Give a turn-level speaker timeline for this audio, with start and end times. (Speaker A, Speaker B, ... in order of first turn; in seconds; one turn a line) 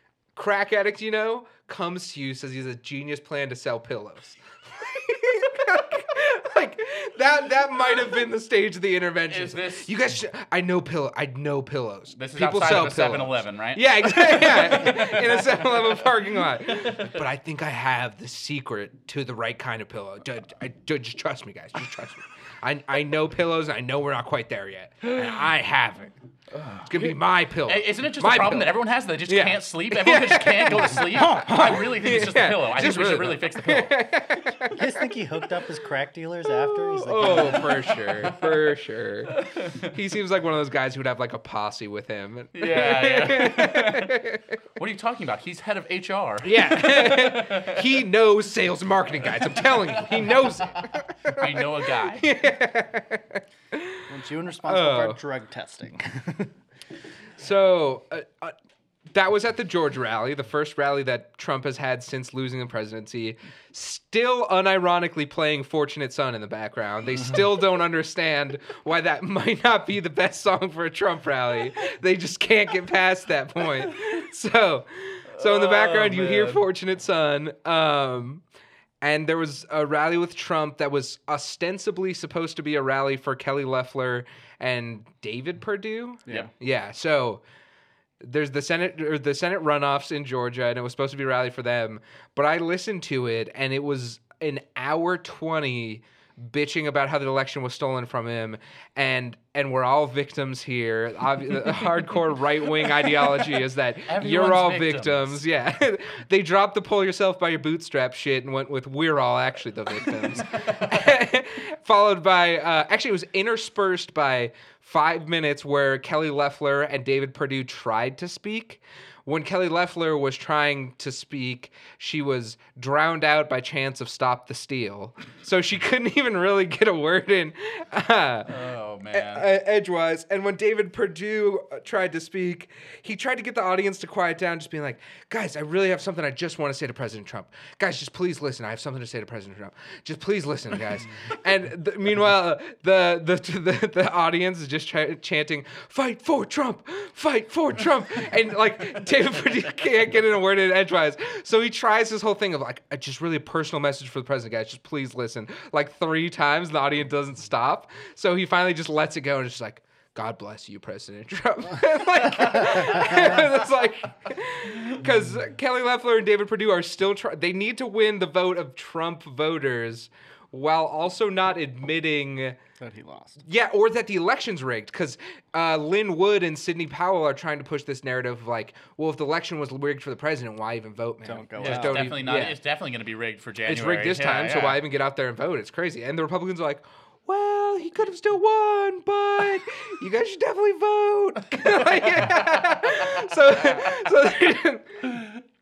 Speaker A: 0.3-26.1
Speaker B: 9.3-9.9
Speaker B: 12.2-16.2
Speaker B: 16.7-17.2
Speaker B: 26.5-33.9
Speaker A: 26.9-35.4
Speaker C: 34.7-37.9
Speaker A: 36.5-44.6
Speaker B: 39.3-39.9
Speaker B: 42.5-44.2
Speaker B: 44.8-48.0
Speaker A: 46.4-54.0
Speaker B: 49.2-52.3
Speaker C: 54.1-56.5
Speaker A: 54.6-55.2
Speaker A: 57.4-58.5
Speaker A: 59.1-78.4
Speaker B: 75.3-76.6
Speaker A: 79.0-87.4
Speaker A: 88.2-128.6
Speaker B: 104.1-105.4
Speaker B: 110.5-110.9
Speaker B: 128.4-129.5
Speaker A: 129.1-172.6
Speaker C: 172.8-173.4
Speaker A: 173.4-182.6
Speaker C: 181.2-182.2
Speaker B: 181.6-184.8
Speaker A: 183.7-195.2